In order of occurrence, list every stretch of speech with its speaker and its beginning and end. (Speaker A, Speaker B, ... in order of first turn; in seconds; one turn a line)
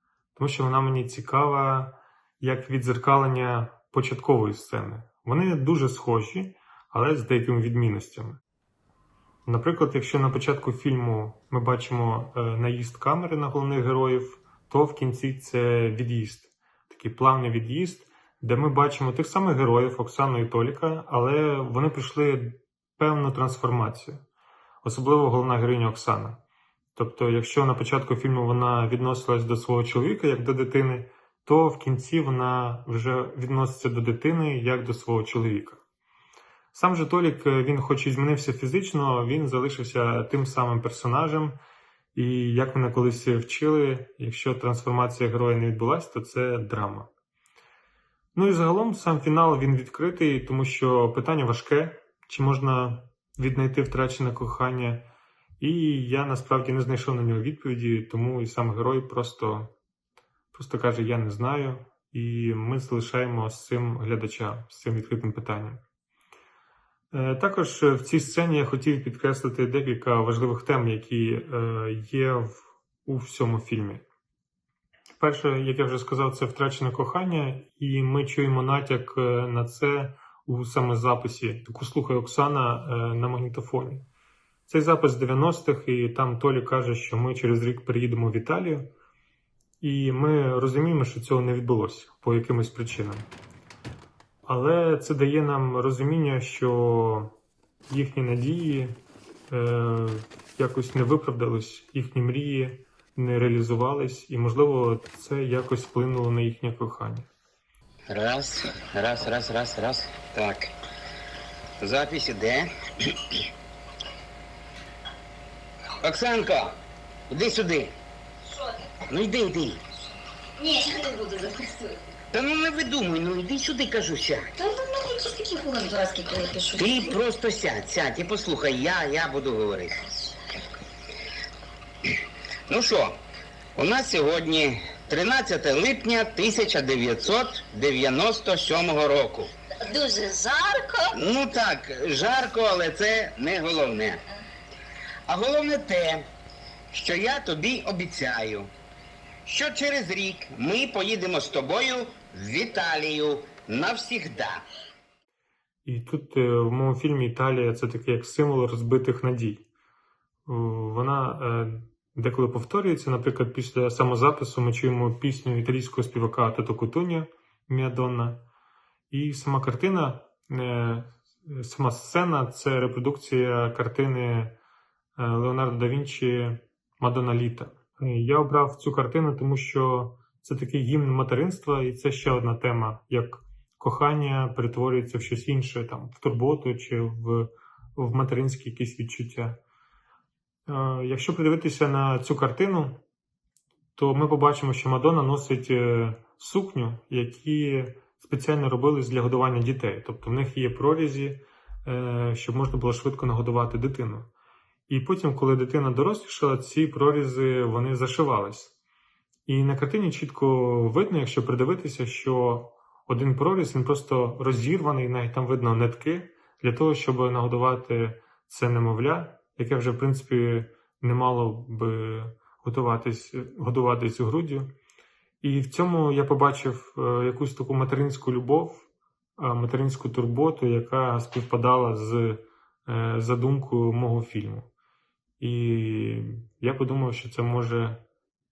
Speaker A: 0.3-8.4
Speaker A: 9.5-24.2
Speaker A: 24.8-26.4
Speaker A: 27.0-35.8
Speaker A: 36.7-41.6
Speaker A: 42.1-47.1
Speaker A: 48.4-55.1
Speaker A: 55.6-59.7
Speaker A: 60.5-65.8
Speaker A: 67.1-74.0
Speaker A: 75.2-84.1
Speaker A: 84.7-88.9
Speaker A: 89.8-93.3
Speaker A: 94.5-97.3
Speaker A: 97.9-107.3
Speaker B: 108.1-110.7
Speaker B: 111.8-113.4
Speaker B: 116.0-116.8
Speaker B: 117.3-118.0
Speaker B: 119.1-119.8
Speaker C: 120.6-122.0
Speaker B: 122.3-124.5
Speaker C: 124.6-127.1
Speaker B: 126.7-130.0
Speaker B: 132.7-133.2
Speaker B: 133.8-139.5
Speaker C: 139.8-141.2
Speaker B: 141.1-144.2
Speaker B: 145.3-146.3
Speaker B: 146.9-148.7
Speaker B: 149.4-154.6
Speaker A: 155.9-159.7
Speaker A: 160.5-168.4
Speaker A: 169.1-174.6
Speaker A: 175.2-189.6
Speaker A: 190.7-193.0
Speaker A: 194.0-204.3
Speaker A: 204.9-208.7
Speaker A: 209.5-224.7
Speaker A: 225.4-228.9
Speaker A: 229.4-234.7
Speaker A: 235.4-238.0